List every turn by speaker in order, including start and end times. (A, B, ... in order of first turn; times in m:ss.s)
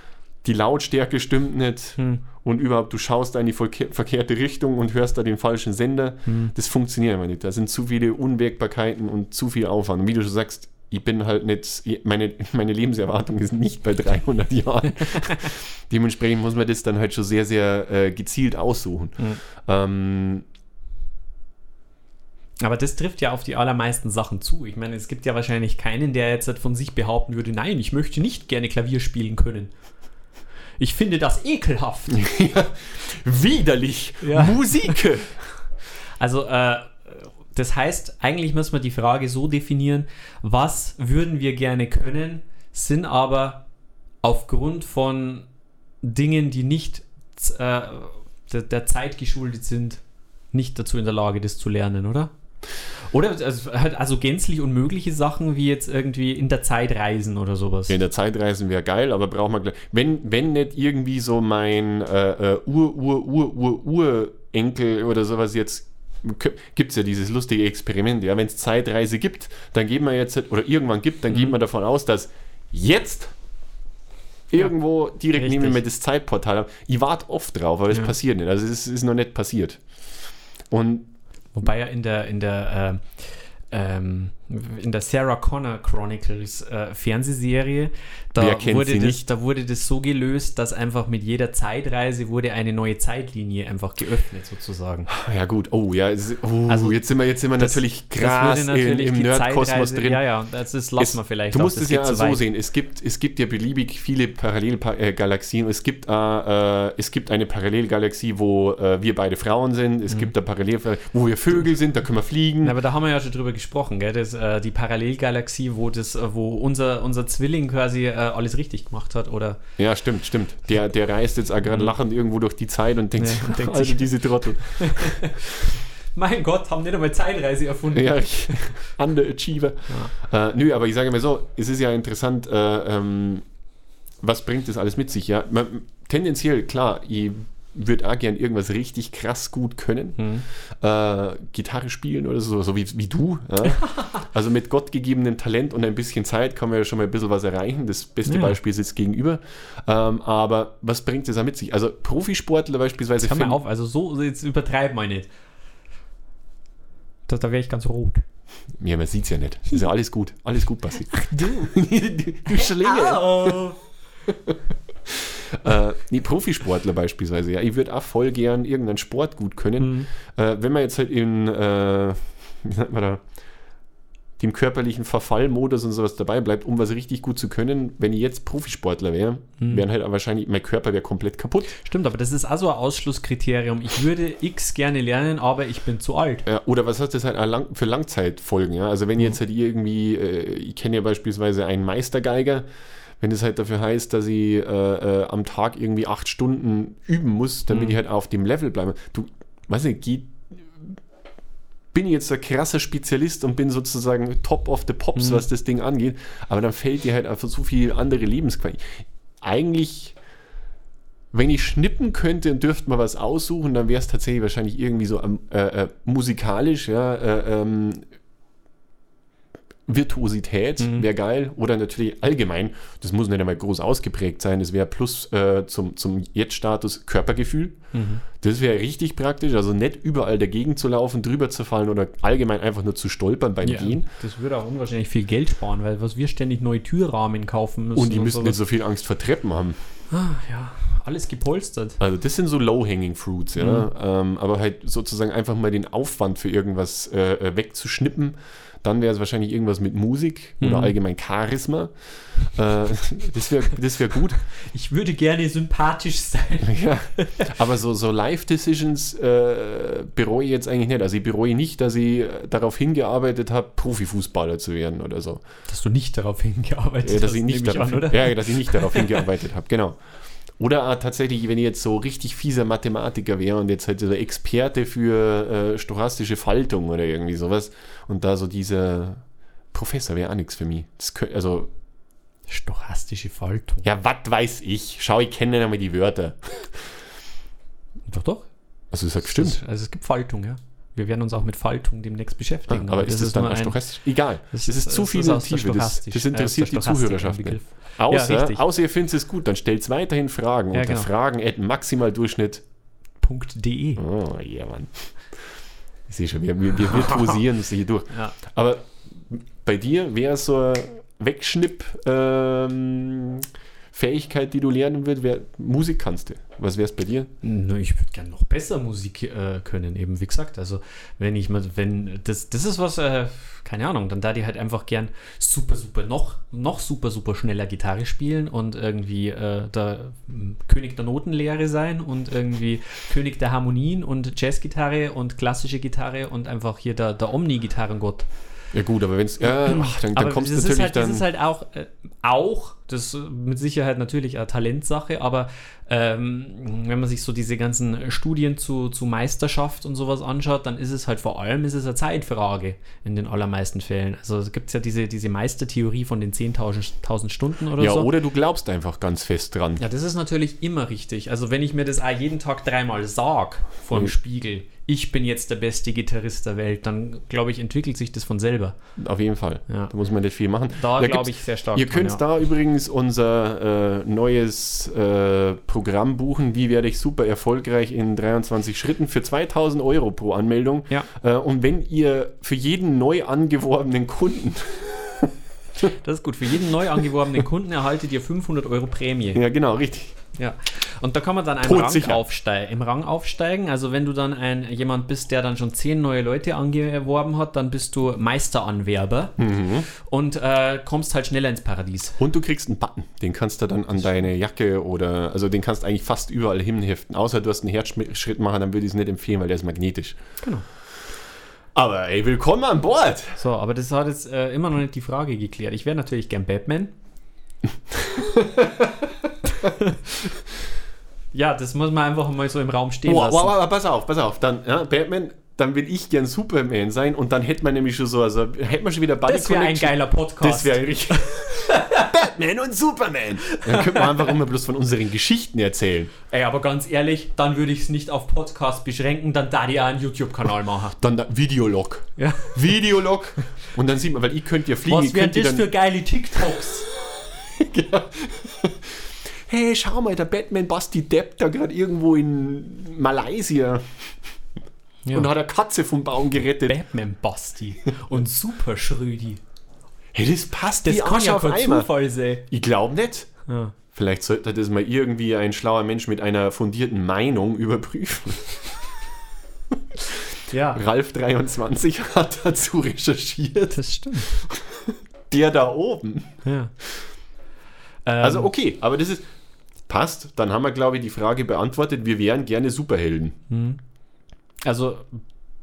0:00.4-0:20.4 A
0:02.0-0:02.2 B
0:06.2-0:06.5 B
0:22.6-0:29.7 B
0:30.8-0:32.2 B
0:32.1-0:35.3 A
0:34.2-0:35.0 B
0:36.2-0:43.6 B
0:44.2-0:45.5 B
0:46.0-0:52.3 B
0:53.1-0:58.0 B
0:57.9-1:13.3 A
1:14.5-1:19.8 A
1:15.3-1:15.8 B
1:20.7-1:21.1 A
1:21.5-1:35.1 B
1:28.4-1:29.2 A
1:35.1-1:40.2 A
1:36.7-1:37.0 B
1:37.5-1:42.4 B
1:41.0-1:52.8 A
1:52.6-1:59.6 B
1:59.8-2:05.4 A
2:03.2-2:08.7 B
2:07.9-2:13.4 A
2:14.2-2:20.2 A
2:20.2-2:20.4 B
2:20.8-2:33.6 A
2:23.7-2:24.2 B
2:28.2-2:28.6 B
2:33.2-2:35.3 B
2:37.3-2:38.2 B
2:38.8-2:43.6 A
2:41.1-2:41.7 B
2:42.5-2:43.8 B
2:44.3-2:44.5 A
2:45.1-2:53.2 A
2:49.8-2:50.1 B
2:54.4-3:01.7 A
3:01.7-3:06.4 B
3:06.4-3:12.6 A
3:13.2-3:21.0 A
3:17.7-3:18.0 B
3:21.9-3:30.2 A
3:25.2-3:25.4 B
3:31.3-3:38.1 A
3:39.9-3:47.8 A
3:40.8-3:41.1 B
3:47.9-3:48.2 B
3:48.3-3:54.0 A
3:53.6-3:58.6 B
3:58.0-3:59.8 A
4:00.1-4:02.0 B
4:02.0-4:14.4 A
4:03.6-4:03.9 B
4:10.6-4:10.9 B
4:14.5-4:17.5 B
4:16.6-4:25.4 A
4:25.7-4:29.2 B
4:27.0-4:30.0 A
4:30.6-4:41.7 A
4:42.5-4:43.8 B
4:43.8-4:46.9 A
4:48.1-4:48.5 B
4:48.9-4:49.6 A
4:49.2-4:53.8 B
4:52.7-5:02.6 A
4:54.5-4:58.6 B
5:00.7-5:01.1 B
5:03.2-5:04.0 B
5:04.0-5:05.1 A
5:06.1-5:17.3 A
5:06.9-5:07.4 B
5:17.4-5:38.3 B
5:38.7-5:41.2 A
5:39.6-5:58.1 B
5:57.8-5:59.8 A
5:59.8-6:08.8 B
6:09.0-6:25.3 A
6:10.7-6:12.2 B
6:25.8-6:29.4 B
6:29.3-6:30.2 A
6:30.4-6:42.2 B
6:31.6-6:32.2 A
6:39.4-6:39.9 A
6:42.2-6:50.2 A
6:51.7-6:53.4 A
6:53.4-6:56.9 B
6:57.9-6:59.1 A
6:59.6-7:00.0 B
7:01.3-7:03.5 B
7:03.0-7:16.1 A
7:09.2-7:12.1 B
7:13.5-7:14.3 B
7:16.3-7:21.0 B
7:21.0-7:25.7 A
7:22.2-7:22.6 B
7:24.9-7:26.9 B
7:26.9-7:34.1 A
7:35.1-7:36.8 A
7:36.6-7:39.4 B
7:40.1-7:41.9 A
7:40.8-7:42.4 B
7:42.5-7:43.3 A
7:43.5-7:43.7 B
7:43.9-7:48.9 A
7:49.9-7:56.4 A
7:50.5-7:50.8 B
7:53.7-7:54.3 B
7:56.4-7:56.7 B
7:58.0-7:58.5 B
7:58.2-7:59.3 A
7:59.9-8:03.4 A
8:03.5-8:03.8 B
8:04.6-8:05.2 B